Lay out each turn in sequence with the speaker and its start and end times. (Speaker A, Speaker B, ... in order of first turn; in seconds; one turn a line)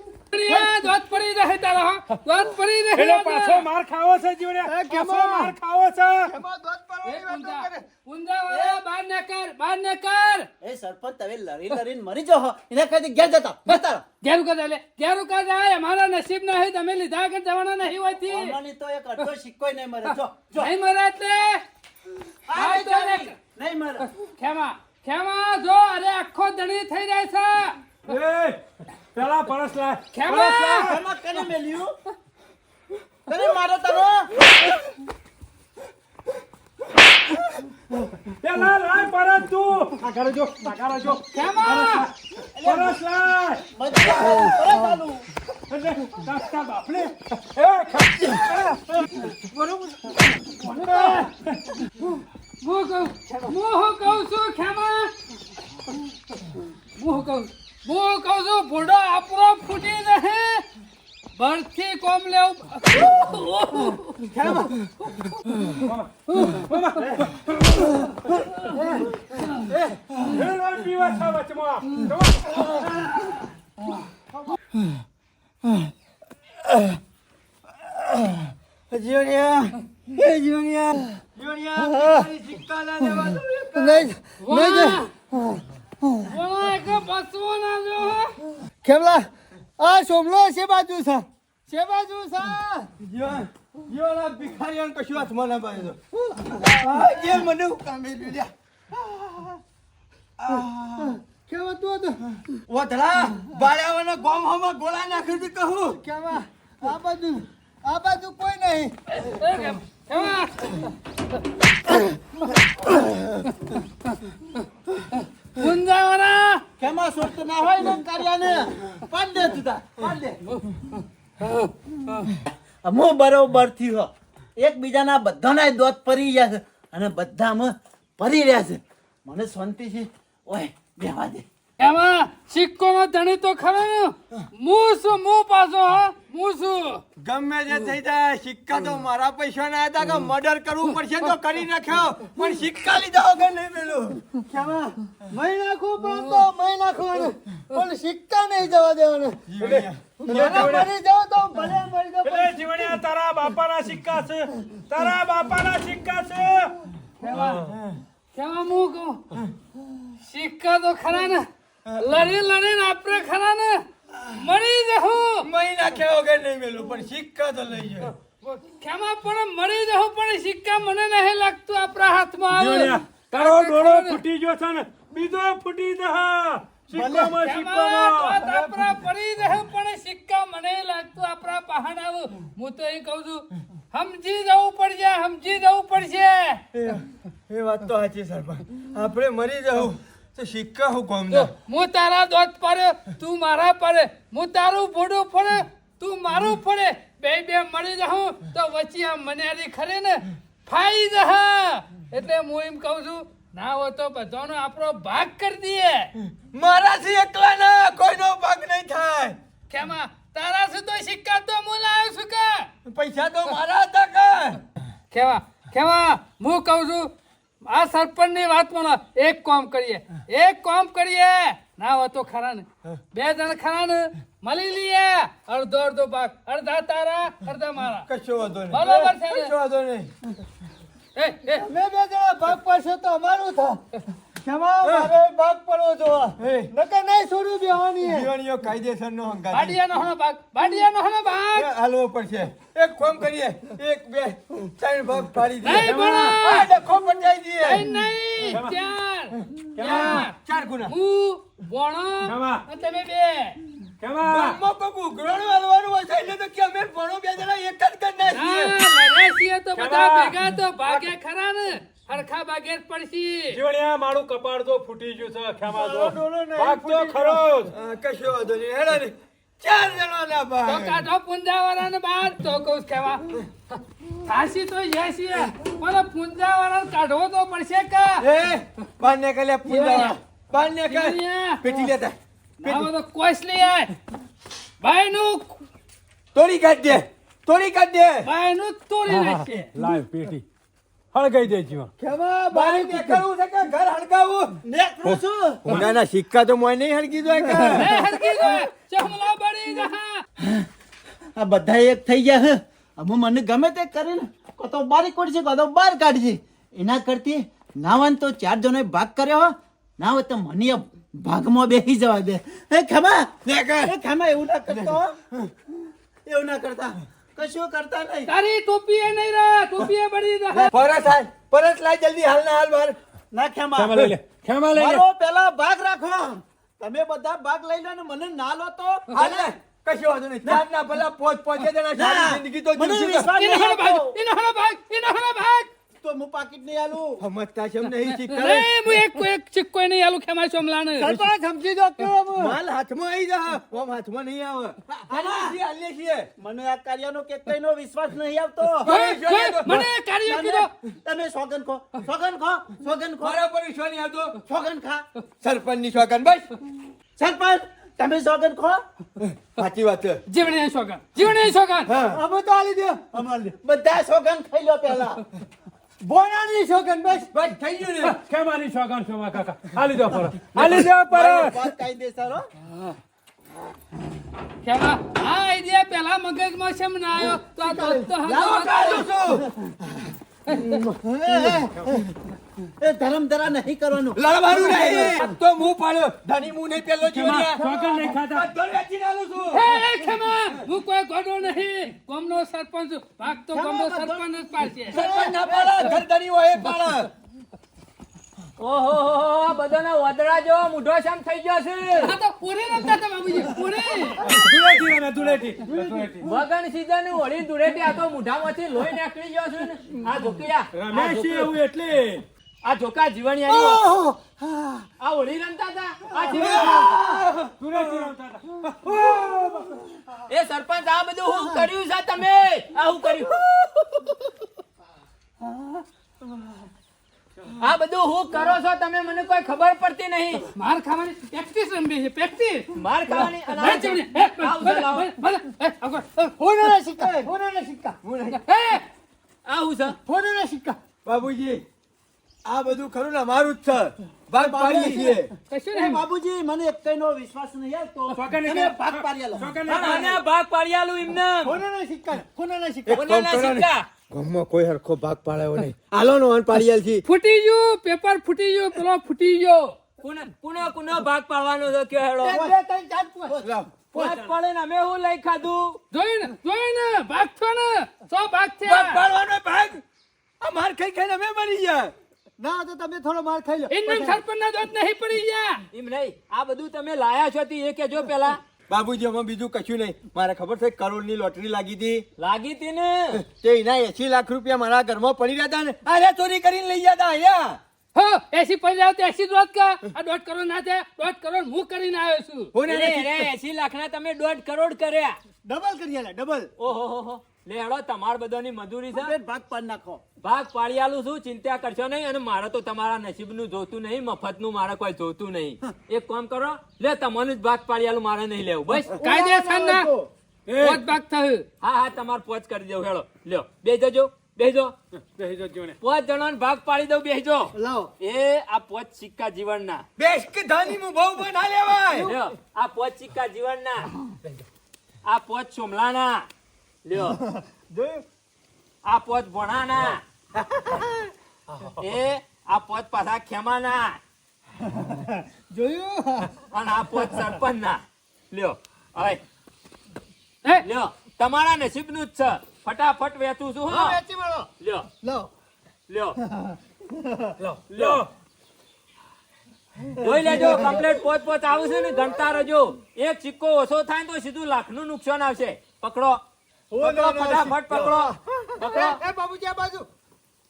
Speaker A: 0.3-3.6
Speaker B: 3.0-6.3
Speaker C: 4.6-5.5
Speaker C: 6.3-7.9
Speaker A: 7.0-10.5
Speaker D: 8.5-8.8
Speaker D: 10.6-14.1
Speaker A: 13.7-18.6
Speaker D: 18.3-20.7
Speaker A: 20.6-21.6
Speaker D: 22.5-24.1
Speaker A: 22.5-23.4
Speaker A: 24.1-27.8
Speaker B: 28.1-28.6
Speaker B: 29.1-31.0
Speaker A: 30.1-30.9
Speaker D: 30.8-32.0
Speaker D: 33.3-34.3
Speaker B: 38.2-44.6
Speaker A: 41.3-42.1
Speaker D: 42.6-43.0
Speaker D: 43.7-45.3
Speaker B: 45.7-49.1
Speaker A: 50.7-51.3
Speaker C: 50.9-51.3
Speaker B: 50.9-51.6
Speaker A: 52.6-55.1
Speaker A: 57.0-60.7
Speaker A: 61.4-64.3
Speaker C: 64.3-64.8
Speaker B: 65.8-68.1
Speaker A: 66.3-66.6
Speaker C: 68.8-69.1
Speaker B: 70.2-73.2
Speaker C: 79.1-81.2
Speaker E: 81.3-84.1
Speaker C: 81.8-82.3
Speaker C: 83.8-86.3
Speaker A: 84.4-85.1
Speaker A: 86.2-88.4
Speaker C: 88.8-92.9
Speaker E: 93.0-96.0
Speaker C: 96.4-97.1
Speaker E: 96.5-98.5
Speaker E: 100.4-101.2
Speaker C: 101.5-102.2
Speaker E: 102.7-106.0
Speaker C: 106.0-108.9
Speaker A: 109.1-110.9
Speaker A: 115.5-116.6
Speaker D: 116.8-120.4
Speaker A: 120.5-122.3
Speaker D: 122.5-131.5
Speaker A: 131.8-137.0
Speaker E: 137.2-144.2
Speaker C: 144.4-152.7
Speaker E: 149.5-150.9
Speaker B: 149.6-150.9
Speaker B: 152.2-156.8
Speaker A: 157.2-157.7
Speaker E: 157.3-158.0
Speaker A: 158.3-159.2
Speaker A: 160.2-161.5
Speaker A: 162.0-165.5
Speaker E: 165.4-168.1
Speaker A: 168.4-174.2
Speaker B: 172.5-178.7
Speaker C: 177.0-177.3
Speaker A: 177.2-186.7
Speaker E: 186.7-191.5
Speaker A: 191.3-206.1
Speaker E: 206.2-209.4
Speaker A: 209.7-212.7
Speaker E: 212.9-214.6
Speaker A: 215.1-217.1
Speaker A: 217.7-228.1
Speaker E: 228.1-230.1
Speaker A: 228.7-229.6
Speaker A: 231.2-231.7
Speaker C: 231.6-233.8
Speaker C: 234.4-238.3
Speaker E: 234.8-235.1
Speaker E: 236.4-236.7
Speaker E: 238.0-239.8
Speaker A: 239.5-241.7
Speaker E: 241.6-247.9
Speaker A: 245.6-246.7
Speaker B: 245.8-246.4
Speaker A: 247.6-253.6
Speaker B: 249.8-250.3
Speaker E: 249.8-250.9
Speaker B: 252.2-252.6
Speaker B: 254.0-254.6
Speaker E: 254.3-258.8
Speaker A: 258.3-263.6
Speaker B: 259.8-260.4
Speaker B: 263.5-267.8
Speaker E: 265.7-271.0
Speaker A: 270.6-273.4
Speaker A: 274.2-278.3
Speaker E: 278.2-282.9
Speaker A: 279.7-280.2
Speaker A: 280.9-281.6
Speaker A: 282.6-283.9
Speaker A: 284.8-285.6
Speaker E: 286.3-288.3
Speaker A: 288.2-289.7
Speaker B: 289.1-290.4
Speaker B: 291.1-291.9
Speaker E: 292.0-298.6
Speaker C: 292.0-293.2
Speaker D: 294.6-295.8
Speaker A: 297.7-300.2
Speaker D: 300.4-300.7
Speaker D: 301.4-315.2
Speaker E: 313.4-313.9
Speaker E: 314.8-315.5
Speaker D: 316.3-318.3
Speaker A: 318.3-320.7
Speaker E: 320.7-323.0
Speaker D: 323.3-324.1
Speaker B: 323.8-325.0
Speaker D: 324.7-329.5
Speaker E: 329.1-333.3
Speaker D: 331.9-334.2
Speaker A: 333.3-335.7
Speaker D: 336.0-337.2
Speaker E: 337.2-338.7
Speaker A: 338.1-341.3
Speaker C: 341.0-342.6
Speaker E: 342.4-346.3
Speaker D: 345.1-345.6
Speaker D: 346.4-348.9
Speaker E: 348.8-349.9
Speaker A: 348.9-350.7
Speaker D: 350.2-353.4
Speaker E: 353.2-354.4
Speaker D: 354.4-355.1
Speaker E: 355.4-356.6
Speaker D: 357.2-358.8
Speaker E: 359.2-360.2
Speaker A: 360.3-361.9
Speaker E: 361.9-362.2
Speaker C: 362.1-363.1
Speaker D: 363.0-365.2
Speaker C: 366.0-367.3
Speaker E: 367.3-368.2
Speaker B: 368.0-371.6
Speaker E: 370.6-370.9
Speaker D: 371.1-372.5
Speaker A: 374.6-379.1
Speaker E: 378.1-379.5
Speaker E: 380.5-380.9
Speaker C: 381.1-381.7
Speaker D: 381.3-382.0
Speaker D: 382.8-385.2
Speaker E: 384.2-389.9
Speaker B: 387.1-388.5
Speaker A: 389.5-395.0
Speaker D: 393.5-394.3
Speaker D: 394.9-396.0
Speaker E: 394.9-397.1
Speaker F: 398.6-402.1
Speaker A: 402.0-404.3
Speaker B: 404.2-406.3
Speaker C: 405.7-406.3
Speaker F: 406.2-411.5
Speaker B: 410.7-412.2
Speaker F: 412.6-413.9
Speaker C: 413.6-414.8
Speaker F: 415.0-417.0
Speaker E: 416.3-418.1
Speaker B: 417.6-419.7
Speaker E: 418.9-419.6
Speaker F: 420.3-424.1
Speaker F: 427.6-430.4
Speaker A: 430.6-436.4
Speaker F: 432.8-435.1
Speaker C: 436.4-438.0
Speaker E: 438.0-438.4
Speaker A: 438.4-438.9
Speaker F: 439.5-440.0
Speaker C: 440.1-440.8
Speaker E: 441.1-441.6
Speaker E: 442.4-445.3
Speaker D: 444.4-445.2
Speaker A: 445.5-446.0
Speaker D: 445.7-449.6
Speaker B: 448.1-450.2
Speaker F: 449.6-451.6
Speaker C: 451.4-453.1
Speaker E: 452.9-457.1
Speaker F: 452.9-453.9
Speaker A: 457.1-459.7
Speaker F: 460.0-462.4
Speaker C: 462.2-463.5
Speaker E: 463.4-464.3
Speaker F: 463.9-465.8
Speaker A: 465.9-469.0
Speaker E: 468.6-469.8
Speaker E: 470.4-471.9
Speaker C: 472.4-474.2
Speaker A: 473.7-475.6
Speaker F: 475.7-478.4
Speaker E: 478.7-482.1
Speaker F: 482.2-483.2
Speaker E: 483.1-487.6
Speaker A: 487.9-492.5
Speaker E: 492.5-493.3
Speaker F: 492.6-495.2
Speaker C: 495.4-496.5
Speaker F: 496.6-499.1
Speaker D: 498.9-500.0
Speaker F: 500.2-508.9
Speaker A: 509.0-509.9
Speaker C: 509.1-510.1
Speaker B: 510.5-510.8
Speaker A: 510.6-511.5
Speaker F: 511.6-514.7
Speaker B: 515.2-515.8
Speaker F: 515.8-519.9
Speaker C: 517.5-517.9
Speaker E: 520.0-522.1
Speaker F: 522.0-523.9
Speaker F: 525.1-526.3
Speaker F: 526.9-527.2
Speaker C: 527.3-528.0
Speaker F: 528.8-530.0
Speaker F: 531.8-534.0
Speaker C: 534.7-536.4
Speaker F: 536.5-539.2
Speaker F: 540.6-544.0
Speaker C: 543.7-544.5
Speaker F: 544.6-544.9
Speaker C: 545.0-545.3
Speaker F: 545.9-546.2
Speaker C: 547.2-548.0
Speaker F: 547.4-548.1
Speaker C: 550.0-550.9
Speaker F: 550.0-556.2
Speaker C: 556.7-559.9
Speaker F: 556.8-559.0